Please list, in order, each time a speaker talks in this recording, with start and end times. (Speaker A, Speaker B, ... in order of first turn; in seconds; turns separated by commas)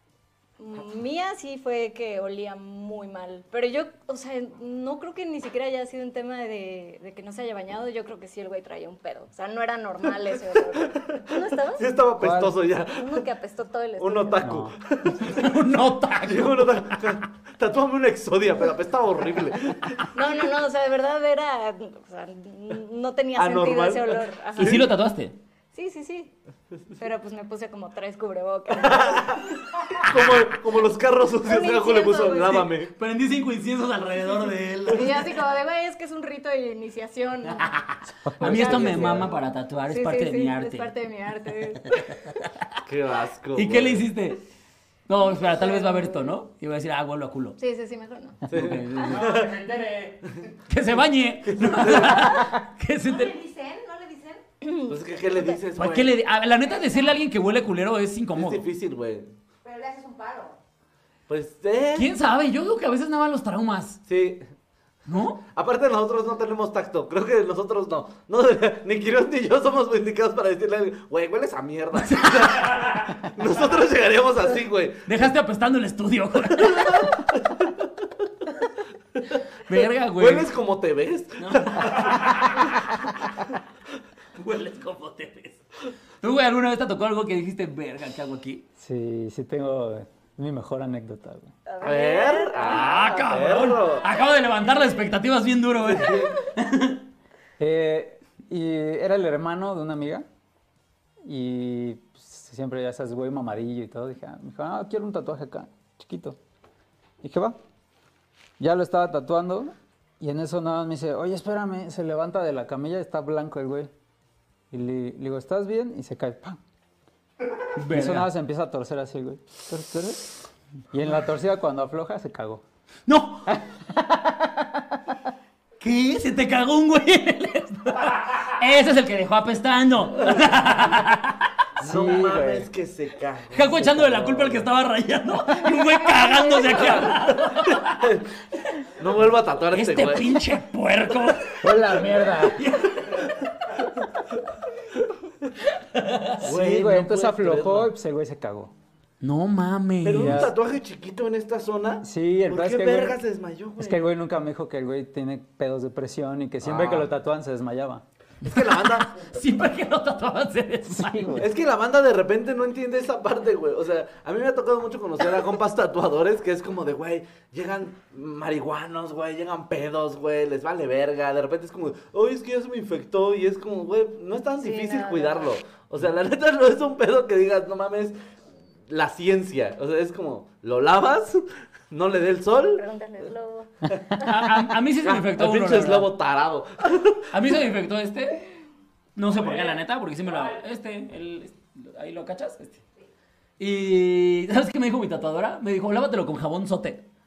Speaker A: 0.6-11.9, Speaker B: 11.0-13.2, Speaker C: 12.2-12.6, Speaker A: 12.9-14.6, Speaker B: 14.0-15.6, Speaker C: 14.4-14.8, Speaker D: 15.1-17.1, Speaker B: 16.2-20.1, Speaker A: 20.1-24.9, Speaker B: 23.4-24.9, Speaker D: 24.6-25.4, Speaker A: 25.7-26.3, Speaker A: 27.0-29.4, Speaker B: 28.8-32.9, Speaker A: 31.4-32.7, Speaker D: 32.9-35.4, Speaker A: 34.9-37.7, Speaker D: 37.6-40.9, Speaker C: 38.2-39.0, Speaker A: 38.4-39.3, Speaker B: 38.5-39.3, Speaker A: 39.9-42.0, Speaker D: 41.9-42.5, Speaker B: 42.8-44.1, Speaker D: 43.5-44.4, Speaker D: 45.1-47.6, Speaker A: 45.4-46.3, Speaker A: 47.6-48.5, Speaker D: 48.5-49.3, Speaker B: 48.5-49.6, Speaker E: 49.0-50.3, Speaker D: 50.7-53.4, Speaker B: 51.5-52.4, Speaker E: 53.0-54.4, Speaker A: 54.6-55.6, Speaker B: 54.9-56.1, Speaker D: 55.8-58.7, Speaker E: 56.8-57.2, Speaker B: 58.4-59.3, Speaker E: 59.6-60.6, Speaker B: 61.3-62.1, Speaker D: 62.0-64.0, Speaker B: 64.1-64.4, Speaker D: 65.1-65.4, Speaker B: 65.5-75.3, Speaker D: 72.0-73.0, Speaker D: 75.1-77.2, Speaker B: 76.5-77.9, Speaker D: 79.6-80.5, Speaker B: 80.2-82.7, Speaker D: 81.4-82.7, Speaker D: 84.4-85.6, Speaker D: 86.2-88.7, Speaker C: 88.8-91.5, Speaker A: 91.7-92.9, Speaker B: 91.8-94.1, Speaker D: 92.6-97.0, Speaker B: 95.9-96.3, Speaker C: 97.6-100.3, Speaker C: 101.2-106.4, Speaker C: 107.2-107.6, Speaker C: 108.6-113.9, Speaker C: 114.7-116.6, Speaker D: 117.8-118.3, Speaker C: 117.9-122.6, Speaker D: 123.1-123.6, Speaker C: 123.5-124.8, Speaker D: 125.8-131.4, Speaker C: 131.8-132.7, Speaker B: 131.8-134.6, Speaker D: 133.5-138.8, Speaker C: 133.8-134.6, Speaker B: 136.6-138.3, Speaker B: 139.0-140.4, Speaker D: 139.7-143.4, Speaker C: 141.6-142.7, Speaker D: 145.7-146.4, Speaker B: 146.4-147.9, Speaker C: 146.4-148.7, Speaker D: 149.2-150.5, Speaker B: 150.0-154.0, Speaker C: 150.1-150.5, Speaker C: 152.0-153.2, Speaker C: 153.8-158.0, Speaker B: 156.6-157.1, Speaker B: 158.4-159.2, Speaker D: 158.5-161.4, Speaker C: 160.9-161.5, Speaker B: 161.4-178.2, Speaker A: 174.6-175.5, Speaker B: 178.9-182.8, Speaker A: 182.8-183.7, Speaker D: 184.2-186.1, Speaker B: 185.0-187.3, Speaker D: 187.3-188.4, Speaker D: 189.2-192.8, Speaker D: 193.6-197.1